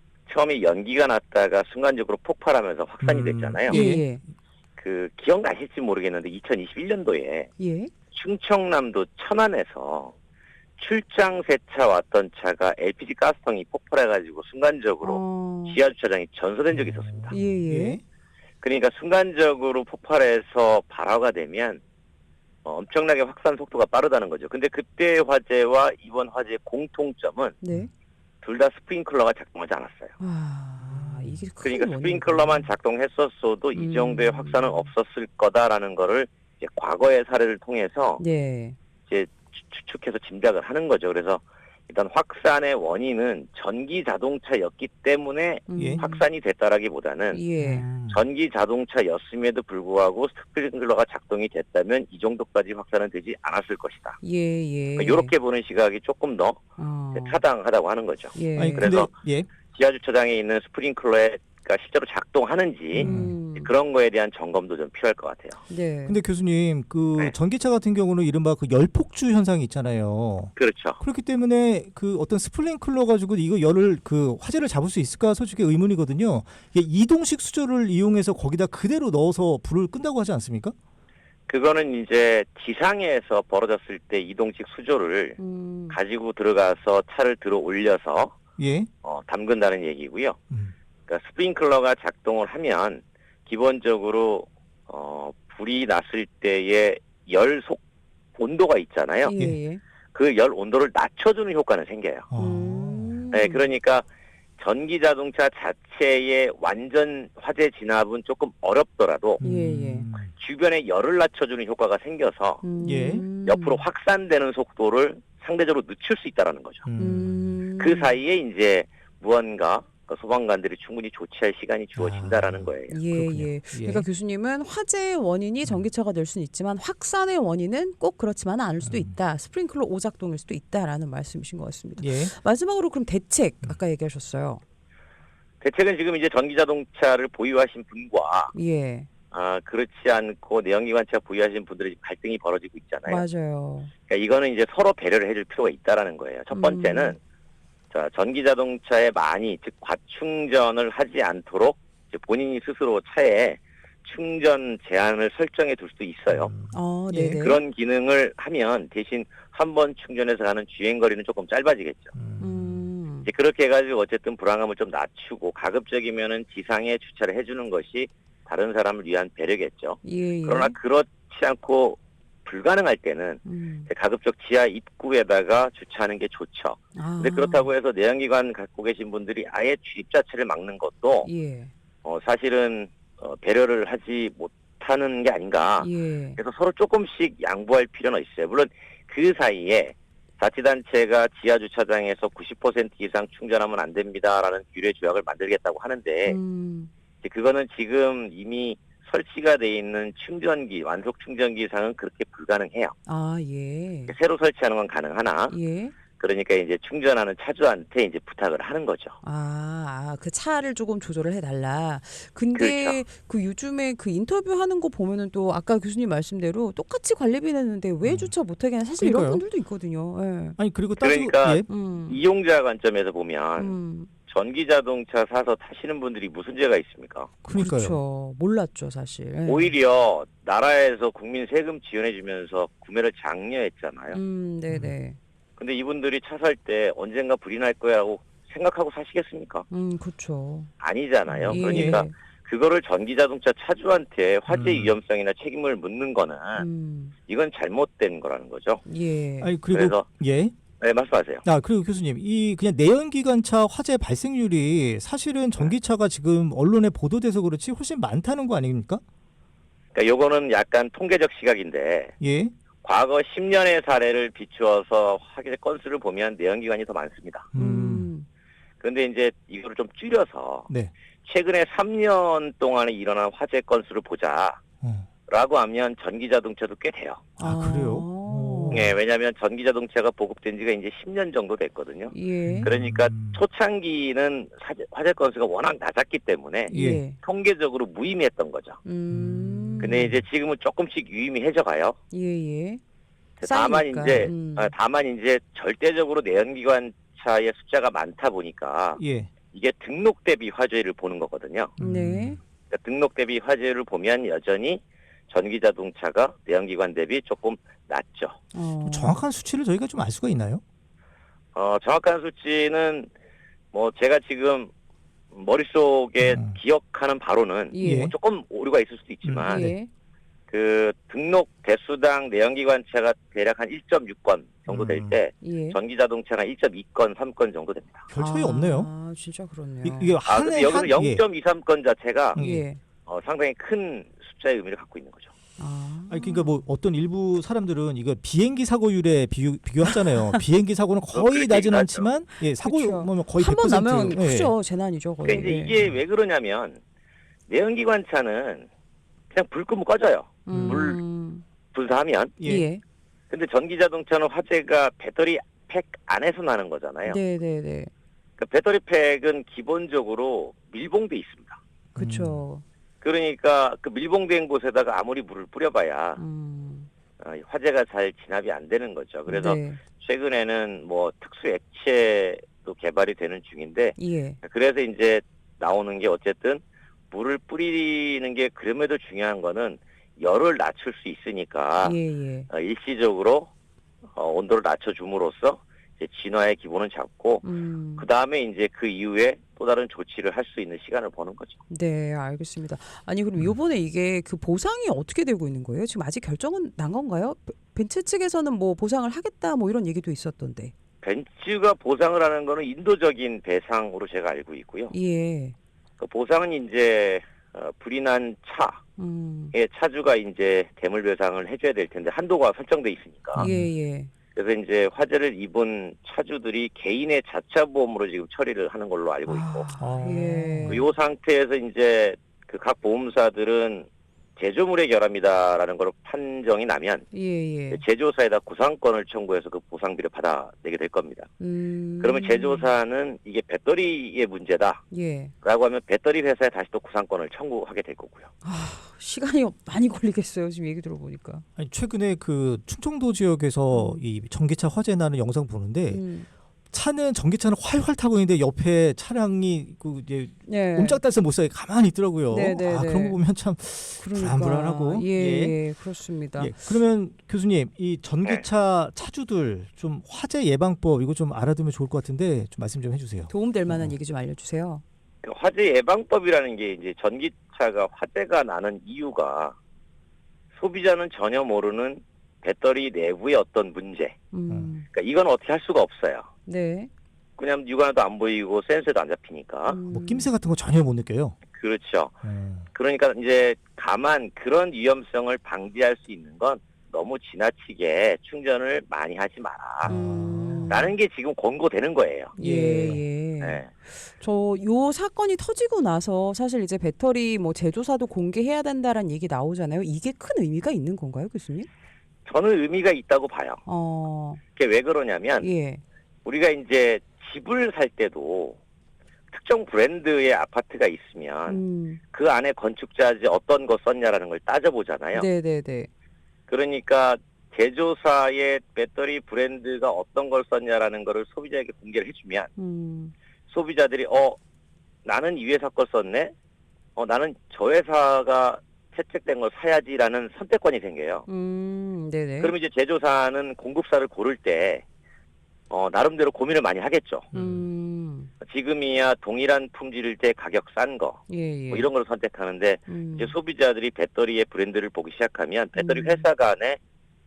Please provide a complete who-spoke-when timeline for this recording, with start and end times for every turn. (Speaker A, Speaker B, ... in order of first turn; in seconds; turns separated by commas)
Speaker A: 0.3-3.8, Speaker B: 3.0-4.0, Speaker C: 3.7-4.2, Speaker A: 4.8-7.5, Speaker C: 7.6-7.9, Speaker A: 8.1-10.1, Speaker A: 10.8-17.3, Speaker C: 15.0-15.8, Speaker B: 16.7-18.0, Speaker C: 17.3-18.0, Speaker A: 18.6-21.8, Speaker A: 22.6-27.6, Speaker C: 27.6-27.9, Speaker A: 28.4-30.1, Speaker C: 30.2-32.7, Speaker B: 30.8-31.4, Speaker A: 31.6-38.2, Speaker C: 33.7-34.9, Speaker C: 38.2-38.8, Speaker A: 39.1-47.4, Speaker C: 45.7-46.2, Speaker B: 45.8-46.0, Speaker C: 47.3-47.9, Speaker B: 47.6-48.2, Speaker A: 48.1-54.2, Speaker C: 54.2-55.3, Speaker A: 54.9-56.6, Speaker C: 56.8-57.4, Speaker A: 57.1-59.1, Speaker C: 58.3-58.9, Speaker B: 58.5-59.5, Speaker A: 59.7-65.6, Speaker C: 62.9-63.7, Speaker B: 63.0-63.4, Speaker C: 65.7-66.2, Speaker B: 66.0-80.7, Speaker A: 70.5-71.0, Speaker A: 81.5-85.4, Speaker C: 85.4-86.0, Speaker A: 85.9-88.3, Speaker B: 88.6-88.9, Speaker A: 89.0-90.4, Speaker A: 91.1-97.8, Speaker A: 98.4-99.3, Speaker C: 99.2-99.8, Speaker A: 100.1-102.3, Speaker B: 102.3-103.2, Speaker C: 102.3-103.7, Speaker A: 103.3-104.0, Speaker A: 104.6-109.4, Speaker B: 109.4-110.3, Speaker C: 109.4-110.1, Speaker A: 110.3-112.6, Speaker C: 112.6-113.8, Speaker B: 112.8-113.2, Speaker A: 113.4-116.9, Speaker B: 116.8-117.6, Speaker C: 117.0-118.1, Speaker A: 117.8-123.0, Speaker B: 122.0-124.0, Speaker C: 122.9-134.6, Speaker B: 128.8-129.1, Speaker B: 132.0-132.3, Speaker A: 135.6-138.5, Speaker C: 138.5-139.1, Speaker A: 139.3-143.2, Speaker C: 143.1-143.9, Speaker A: 144.1-147.2, Speaker C: 146.5-147.2, Speaker A: 147.9-156.5, Speaker B: 156.3-157.4, Speaker C: 156.7-157.6, Speaker A: 157.4-162.1, Speaker B: 162.1-162.8, Speaker C: 162.4-163.3, Speaker A: 163.2-181.3, Speaker C: 170.0-170.8, Speaker C: 173.4-173.9, Speaker C: 176.9-177.7, Speaker C: 181.2-181.7, Speaker A: 182.0-196.4, Speaker C: 185.8-186.4, Speaker C: 196.2-196.9, Speaker A: 197.2-202.9, Speaker C: 203.1-204.1, Speaker A: 204.1-205.6, Speaker C: 205.5-205.9, Speaker A: 206.2-209.2, Speaker C: 209.2-220.6, Speaker A: 212.5-213.0, Speaker B: 218.0-218.3, Speaker B: 219.0-219.4, Speaker B: 220.6-221.7, Speaker A: 221.0-223.8, Speaker C: 221.7-222.2, Speaker C: 223.6-224.1, Speaker A: 224.3-227.3, Speaker B: 227.4-228.0, Speaker C: 227.5-229.7, Speaker A: 229.4-234.2, Speaker C: 234.1-235.2, Speaker A: 235.6-239.7, Speaker C: 239.7-240.7, Speaker A: 240.8-246.7, Speaker B: 241.3-242.0, Speaker C: 241.5-242.1, Speaker B: 244.5-244.9, Speaker C: 246.5-247.1, Speaker A: 247.3-248.8, Speaker C: 248.9-249.5, Speaker B: 249.4-250.5, Speaker A: 249.7-250.1, Speaker A: 250.8-251.4, Speaker B: 251.4-259.0, Speaker A: 259.9-262.1, Speaker B: 262.2-262.5, Speaker A: 262.8-267.5, Speaker B: 267.5-268.1, Speaker C: 267.6-268.2, Speaker A: 268.8-270.7, Speaker A: 271.2-274.6, Speaker B: 274.8-275.1, Speaker A: 275.3-277.3, Speaker B: 277.4-278.9, Speaker C: 277.4-278.9, Speaker A: 278.7-288.8, Speaker C: 282.1-282.7, Speaker B: 282.4-283.4, Speaker C: 286.7-287.2, Speaker B: 286.7-287.0, Speaker C: 288.8-290.1, Speaker B: 289.1-290.2, Speaker A: 289.8-292.0, Speaker C: 292.1-292.8, Speaker A: 293.4-299.0, Speaker C: 293.4-294.7, Speaker B: 299.0-299.3, Speaker A: 299.5-301.7, Speaker B: 301.8-302.4, Speaker C: 301.8-302.4, Speaker A: 302.7-308.4, Speaker C: 308.5-309.3, Speaker B: 308.8-310.6, Speaker A: 311.5-313.1, Speaker A: 313.7-314.7, Speaker A: 315.3-319.7, Speaker B: 316.2-316.5, Speaker C: 317.7-318.1, Speaker B: 317.8-318.1, Speaker B: 319.2-319.8, Speaker C: 319.4-319.9, Speaker A: 320.5-328.1, Speaker B: 324.7-325.1, Speaker C: 325.4-325.8, Speaker B: 328.1-328.9, Speaker C: 328.1-330.1, Speaker B: 329.8-331.2, Speaker A: 330.2-332.4, Speaker B: 332.3-332.6, Speaker C: 332.4-332.8, Speaker A: 333.1-335.3, Speaker C: 335.6-336.6, Speaker B: 336.1-344.5, Speaker C: 339.9-340.4, Speaker A: 341.1-342.1, Speaker C: 342.6-345.8, Speaker A: 345.2-346.8, Speaker A: 347.5-348.7, Speaker A: 349.3-351.0, Speaker C: 350.4-351.4, Speaker B: 350.5-350.9, Speaker A: 351.7-352.4, Speaker B: 352.4-352.6, Speaker C: 352.4-352.8, Speaker A: 353.3-357.2, Speaker C: 357.0-357.9, Speaker A: 358.4-361.6, Speaker C: 361.9-362.6, Speaker B: 361.9-362.4, Speaker A: 363.0-366.2, Speaker C: 366.2-366.9, Speaker A: 367.2-382.0, Speaker C: 369.3-369.8, Speaker C: 374.0-374.4, Speaker C: 381.8-382.5, Speaker A: 382.5-383.5, Speaker A: 384.1-387.4, Speaker C: 387.4-388.1, Speaker A: 388.0-391.6, Speaker C: 391.7-400.7, Speaker A: 401.0-404.9, Speaker C: 404.9-405.5, Speaker A: 406.0-408.8, Speaker C: 409.0-409.5, Speaker A: 409.5-413.5, Speaker B: 413.3-413.7, Speaker C: 413.4-414.1, Speaker A: 414.3-419.7, Speaker C: 419.3-420.9, Speaker B: 419.8-420.9, Speaker A: 420.7-427.1, Speaker C: 427.1-427.8, Speaker A: 427.7-431.3, Speaker C: 431.4-432.7, Speaker A: 432.0-434.8, Speaker C: 434.9-435.3, Speaker A: 435.4-438.3, Speaker C: 438.4-441.4, Speaker B: 441.6-446.0, Speaker C: 443.7-444.0, Speaker C: 445.9-446.3, Speaker B: 446.7-455.6, Speaker C: 450.4-451.0, Speaker C: 452.3-453.2, Speaker C: 454.0-456.6, Speaker B: 456.4-463.9, Speaker C: 463.3-464.8, Speaker A: 465.2-469.6, Speaker A: 470.5-474.2, Speaker C: 474.3-474.9, Speaker A: 474.9-476.3, Speaker C: 476.4-476.9, Speaker A: 477.4-479.8, Speaker C: 479.7-480.3, Speaker B: 479.9-481.4, Speaker A: 481.5-482.2, Speaker B: 482.2-482.6, Speaker A: 482.7-490.0, Speaker B: 489.8-490.8, Speaker C: 489.9-490.9, Speaker A: 490.7-492.4, Speaker C: 492.4-501.7, Speaker B: 492.4-493.0, Speaker A: 493.4-493.7, Speaker A: 502.2-503.6, Speaker C: 503.6-504.4, Speaker A: 504.6-505.5, Speaker C: 505.4-505.8, Speaker A: 506.2-508.6, Speaker A: 509.3-515.3, Speaker C: 511.5-512.0, Speaker C: 515.1-515.9, Speaker A: 516.5-522.5, Speaker C: 522.6-523.1, Speaker A: 523.5-524.4, Speaker A: 525.0-526.3, Speaker A: 527.0-531.3, Speaker C: 531.3-532.5, Speaker A: 532.4-534.8, Speaker A: 535.7-537.3, Speaker B: 537.3-537.6, Speaker C: 537.3-538.3, Speaker A: 538.4-546.8, Speaker C: 541.3-541.9, Speaker C: 542.9-543.3, Speaker C: 545.8-546.2